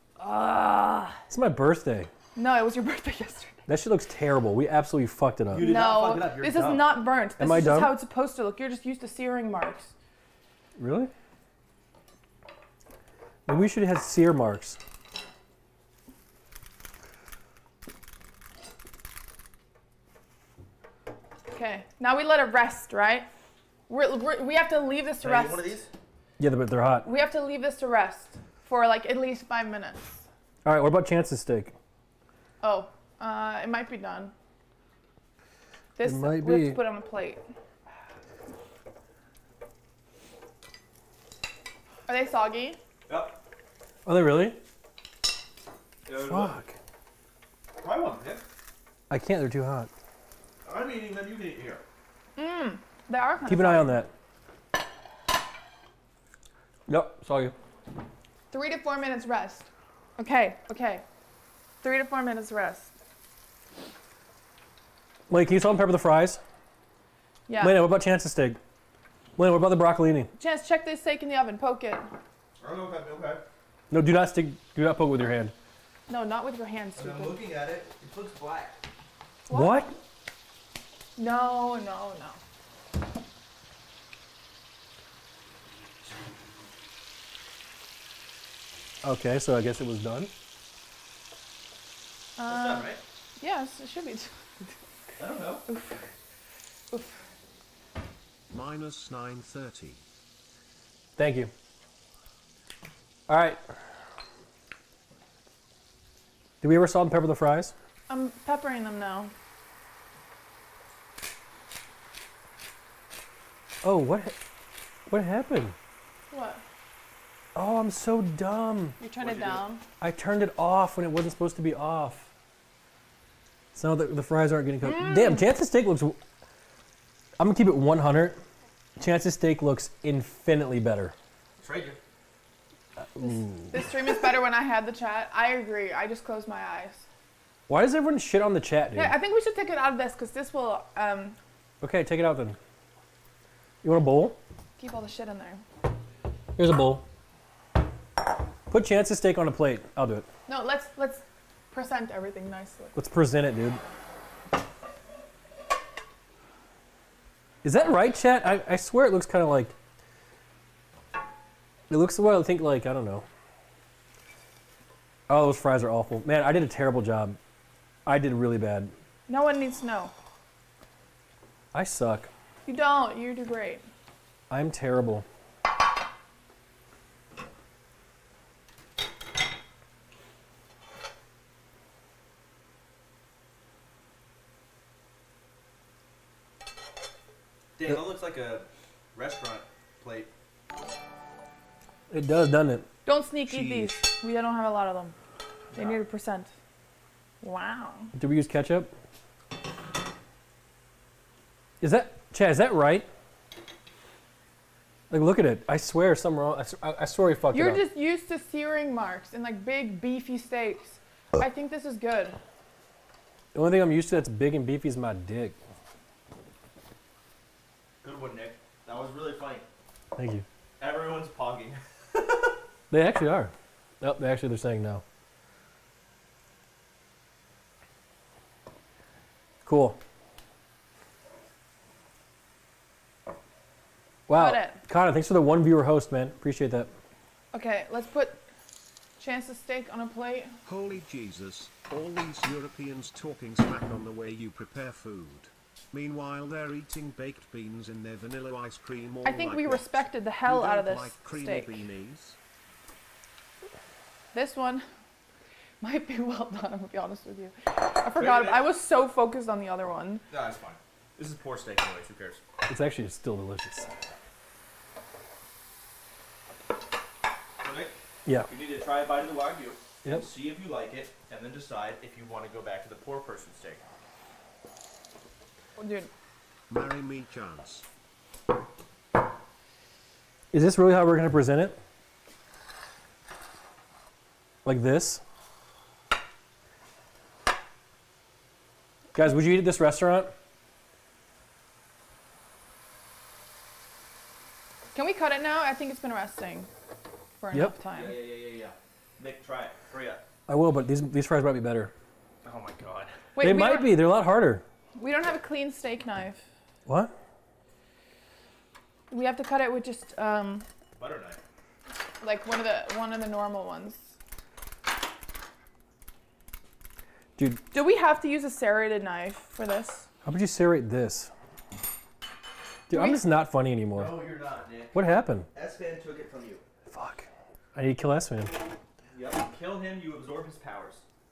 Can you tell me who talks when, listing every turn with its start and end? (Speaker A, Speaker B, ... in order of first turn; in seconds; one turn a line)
Speaker A: 0.2-1.2
Speaker B: 1.3-2.1
Speaker A: 2.3-3.7
Speaker B: 3.7-5.7
Speaker C: 5.5-6.9
Speaker A: 5.6-9.9
Speaker B: 7.4-7.9
Speaker B: 10.8-11.1
Speaker B: 13.5-14.8
Speaker A: 21.5-23.3
Speaker A: 23.9-25.8
Speaker C: 25.2-25.9
Speaker B: 26.4-27.1
Speaker A: 27.0-30.2
Speaker B: 30.6-31.7
Speaker A: 32.6-34.3
Speaker A: 36.0-37.4
Speaker B: 36.0-36.8
Speaker A: 42.1-42.8
Speaker C: 43.1-43.4
Speaker B: 44.0-44.6
Speaker C: 46.0-46.6
Speaker B: 46.2-46.8
Speaker C: 47.8-48.4
Speaker B: 49.1-49.9
Speaker C: 50.6-51.8
Speaker A: 52.4-54.0
Speaker B: 53.5-54.1
Speaker B: 56.9-57.5
Speaker A: 58.5-61.0
Speaker A: 61.8-62.9
Speaker B: 65.3-66.4
Speaker A: 67.5-67.8
Speaker B: 67.6-68.6
Speaker B: 69.4-70.3
Speaker A: 70.3-72.1
Speaker C: 72.6-73.4
Speaker B: 73.9-75.5
Speaker A: 76.1-77.4
Speaker C: 77.0-78.8
Speaker A: 79.5-79.8
Speaker B: 79.5-79.9
Speaker A: 81.2-82.4
Speaker B: 89.0-90.3
Speaker A: 92.4-94.8
Speaker C: 92.5-93.0
Speaker C: 95.2-95.7
Speaker A: 95.7-96.1
Speaker D: 98.5-100.0
Speaker B: 101.2-101.5
Speaker B: 103.3-103.6
Speaker B: 106.6-107.7
Speaker A: 108.1-109.3
Speaker B: 113.8-114.4
Speaker B: 115.1-115.7
Speaker A: 116.3-116.6
Speaker B: 117.5-119.0
Speaker A: 119.0-119.8
Speaker C: 119.2-119.7
Speaker B: 120.0-122.3
Speaker B: 123.7-126.2
Speaker A: 124.8-125.5
Speaker B: 127.4-128.4
Speaker B: 129.0-131.1
Speaker C: 131.6-132.0
Speaker B: 133.0-133.9
Speaker A: 133.7-137.1
Speaker B: 137.7-139.2
Speaker A: 138.9-141.4
Speaker B: 141.8-142.6
Speaker B: 143.8-144.4
Speaker A: 144.8-145.6
Speaker B: 146.6-147.1
Speaker B: 148.7-150.3
Speaker A: 150.5-152.9
Speaker B: 152.9-153.8
Speaker B: 157.6-159.7
Speaker B: 161.9-163.2
Speaker B: 165.3-167.4
Speaker B: 168.1-168.9
Speaker A: 169.3-170.1
Speaker B: 171.7-172.3
Speaker A: 172.7-173.8
Speaker B: 174.5-175.2
Speaker C: 187.8-190.3
Speaker B: 192.1-192.8
Speaker A: 193.1-195.2
Speaker D: 193.5-194.0
Speaker C: 195.7-196.0
Speaker A: 195.7-196.5
Speaker A: 197.4-198.1
Speaker B: 198.1-198.9
Speaker B: 201.8-203.1
Speaker B: 205.1-207.8
Speaker A: 207.5-212.4
Speaker B: 213.5-215.6
Speaker C: 218.0-219.7
Speaker B: 220.1-220.4
Speaker C: 220.8-222.6
Speaker B: 222.9-225.0
Speaker B: 229.6-230.0
Speaker B: 234.3-236.9
Speaker A: 234.3-234.8
Speaker A: 237.5-238.4
Speaker A: 239.2-240.5
Speaker D: 240.6-249.8
Speaker A: 249.2-251.8
Speaker D: 250.4-252.4
Speaker A: 254.3-254.8
Speaker A: 255.8-260.2
Speaker C: 258.1-258.6
Speaker C: 260.3-262.4
Speaker B: 262.7-263.9
Speaker C: 267.6-267.9
Speaker C: 268.5-273.8
Speaker A: 275.8-276.1
Speaker D: 276.7-277.9
Speaker B: 280.5-281.8
Speaker B: 284.6-285.2
Speaker B: 289.1-290.3
Speaker A: 294.9-296.7
Speaker A: 297.4-298.2
Speaker C: 297.9-300.2
Speaker B: 300.5-301.9
Speaker C: 302.4-303.2
Speaker A: 303.3-304.0
Speaker B: 303.4-304.6
Speaker A: 304.9-306.4
Speaker B: 306.9-307.1
Speaker A: 309.1-310.7
Speaker C: 311.0-311.4
Speaker A: 312.2-314.1
Speaker A: 317.7-320.1
Speaker B: 320.2-321.3
Speaker B: 322.9-324.2
Speaker A: 322.9-323.2
Speaker C: 323.9-325.0
Speaker B: 324.9-325.5
Speaker C: 325.5-326.6
Speaker B: 326.9-328.6
Speaker C: 329.1-331.1